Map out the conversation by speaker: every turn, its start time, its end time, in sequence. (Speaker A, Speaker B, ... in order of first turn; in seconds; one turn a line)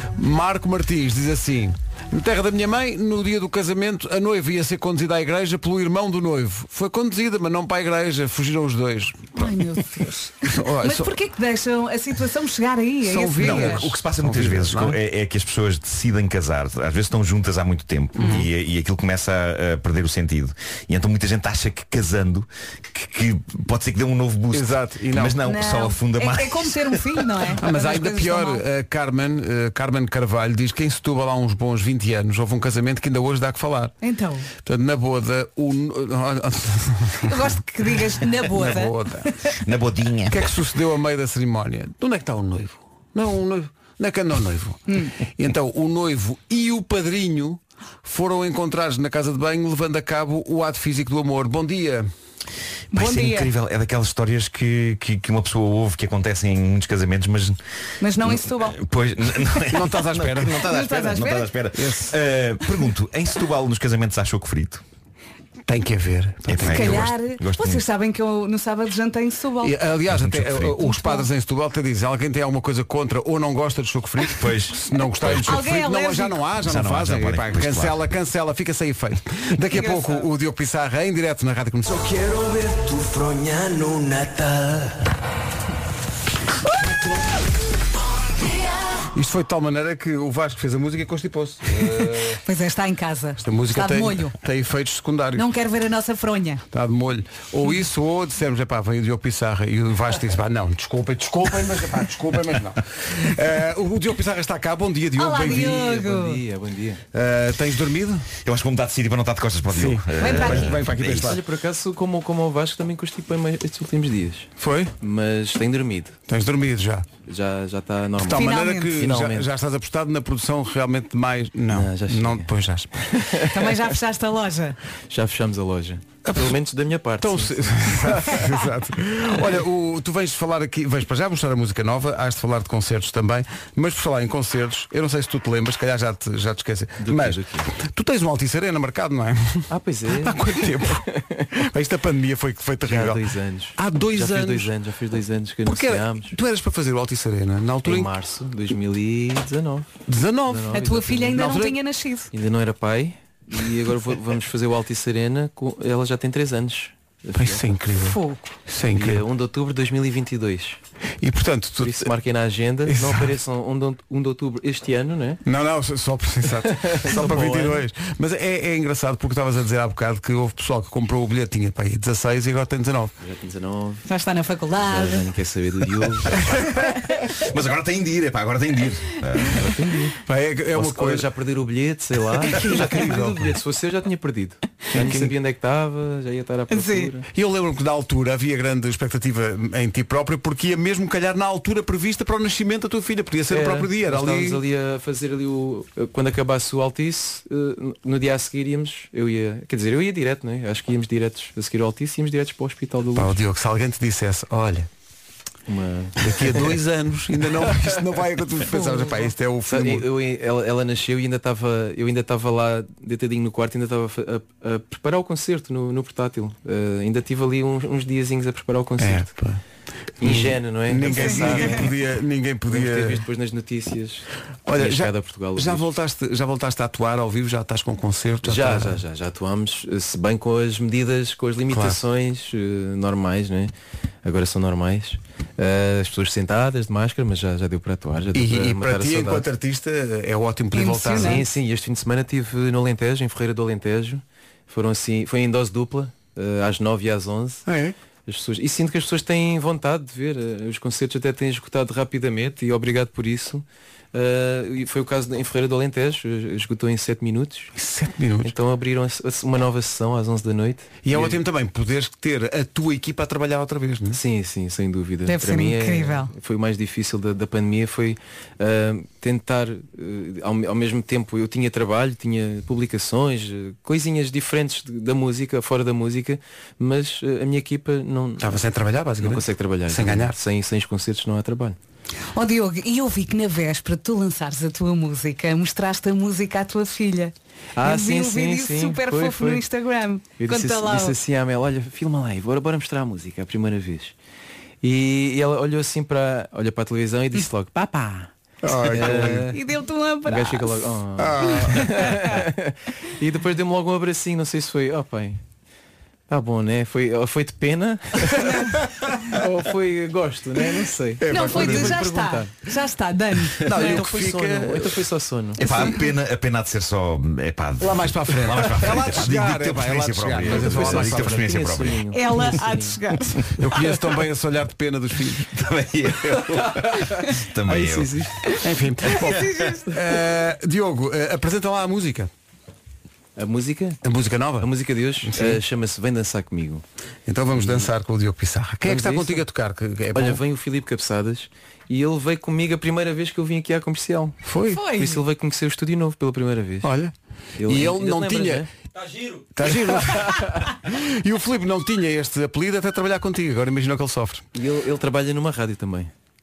Speaker A: 0.1-9.8
Speaker B: 9.4-13.8
Speaker A: 10.4-11.2
Speaker A: 13.0-15.0
Speaker C: 13.4-27.4
Speaker A: 18.2-18.5
Speaker A: 24.5-25.4
Speaker B: 25.4-28.6
Speaker A: 27.6-33.9
Speaker B: 34.0-34.5
Speaker A: 34.6-37.4
Speaker B: 37.3-39.5
Speaker A: 38.2-39.3
Speaker C: 39.6-40.5
Speaker A: 40.3-52.1
Speaker B: 44.9-45.1
Speaker B: 52.9-53.5
Speaker C: 52.9-57.6
Speaker B: 58.0-58.8
Speaker C: 58.2-64.8
Speaker A: 59.7-60.7
Speaker B: 60.6-61.5
Speaker A: 61.8-62.1
Speaker A: 65.7-67.1
Speaker C: 66.5-67.9
Speaker B: 66.6-69.8
Speaker A: 69.6-82.1
Speaker C: 70.1-70.8
Speaker B: 70.8-71.3
Speaker C: 74.3-75.6
Speaker B: 75.5-76.4
Speaker C: 76.6-78.0
Speaker B: 79.7-80.2
Speaker D: 82.0-85.0
Speaker A: 89.1-92.4
Speaker B: 92.4-94.3
Speaker A: 93.4-95.5
Speaker B: 95.4-96.6
Speaker A: 96.7-105.9
Speaker B: 105.2-106.4
Speaker E: 105.4-107.0
Speaker A: 107.1-108.3
Speaker C: 108.5-111.4
Speaker A: 109.7-111.4
Speaker B: 110.2-110.7
Speaker E: 111.2-116.2
Speaker A: 114.6-114.9
Speaker A: 116.3-117.1
Speaker E: 117.2-119.5
Speaker B: 118.2-119.0
Speaker A: 118.2-123.3
Speaker C: 119.0-119.3
Speaker E: 121.7-122.5
Speaker E: 123.0-123.5
Speaker B: 123.5-124.8
Speaker E: 125.1-128.5
Speaker A: 126.2-126.6
Speaker A: 127.2-144.7
Speaker E: 137.0-137.7
Speaker E: 139.7-141.5
Speaker E: 142.8-146.4
Speaker A: 145.7-148.1
Speaker E: 147.8-151.6
Speaker A: 150.1-151.8
Speaker B: 150.7-152.3
Speaker E: 152.3-157.7
Speaker A: 157.3-159.2
Speaker B: 158.0-158.5
Speaker E: 158.9-160.8
Speaker A: 161.2-162.1
Speaker E: 161.8-165.4
Speaker A: 162.9-163.3
Speaker A: 165.4-173.2
Speaker E: 166.6-167.8
Speaker E: 173.2-174.1
Speaker B: 174.1-175.3
Speaker E: 174.8-176.3
Speaker C: 176.3-179.8
Speaker E: 179.5-180.2
Speaker A: 180.2-181.3
Speaker E: 180.7-187.3
Speaker A: 182.5-183.6
Speaker A: 184.9-185.3
Speaker B: 186.7-187.1
Speaker A: 187.3-194.6
Speaker E: 193.5-203.4
Speaker A: 203.2-204.9
Speaker E: 205.7-206.8
Speaker A: 206.2-210.1
Speaker E: 207.4-208.0
Speaker B: 208.7-209.3
Speaker E: 209.7-219.3
Speaker A: 219.0-219.6
Speaker E: 220.2-222.0
Speaker A: 220.2-223.2
Speaker E: 222.7-225.9
Speaker A: 224.7-229.0
Speaker E: 228.4-233.7
Speaker A: 231.7-232.0
Speaker E: 234.2-239.4
Speaker A: 238.3-241.4
Speaker B: 240.7-241.4
Speaker E: 241.1-247.7
Speaker A: 247.7-247.9
Speaker E: 248.3-257.7
Speaker A: 257.7-258.5
Speaker E: 258.4-261.4
Speaker A: 261.0-264.2
Speaker E: 264.1-278.6
Speaker B: 265.3-266.3
Speaker A: 278.4-280.4
Speaker E: 279.2-281.8
Speaker B: 282.3-291.2
Speaker E: 287.8-289.6
Speaker E: 290.4-294.1
Speaker E: 294.8-299.6
Speaker A: 298.6-299.5
Speaker B: 299.2-300.9
Speaker E: 300.2-305.4
Speaker A: 301.2-302.3
Speaker B: 301.8-302.3
Speaker E: 306.3-312.6
Speaker A: 308.3-309.4
Speaker A: 311.2-312.1
Speaker B: 311.3-314.1
Speaker A: 313.6-315.0
Speaker E: 313.7-315.6
Speaker C: 315.6-322.5
Speaker B: 315.6-315.9
Speaker A: 317.8-321.6
Speaker E: 320.4-323.0
Speaker B: 322.1-323.4
Speaker A: 323.6-325.5
Speaker C: 325.4-328.5
Speaker E: 326.6-326.9
Speaker E: 327.7-328.6
Speaker A: 328.6-332.3
Speaker C: 329.1-329.6
Speaker B: 329.1-330.0
Speaker E: 333.4-334.0
Speaker A: 334.0-335.6
Speaker E: 334.6-336.8
Speaker A: 337.3-340.4
Speaker E: 337.5-337.9
Speaker E: 338.8-339.4
Speaker E: 340.1-346.9
Speaker A: 344.4-344.9
Speaker B: 344.7-345.2
Speaker A: 346.8-348.7
Speaker E: 347.6-348.7
Speaker A: 349.5-354.5
Speaker E: 349.6-350.7
Speaker E: 354.6-356.1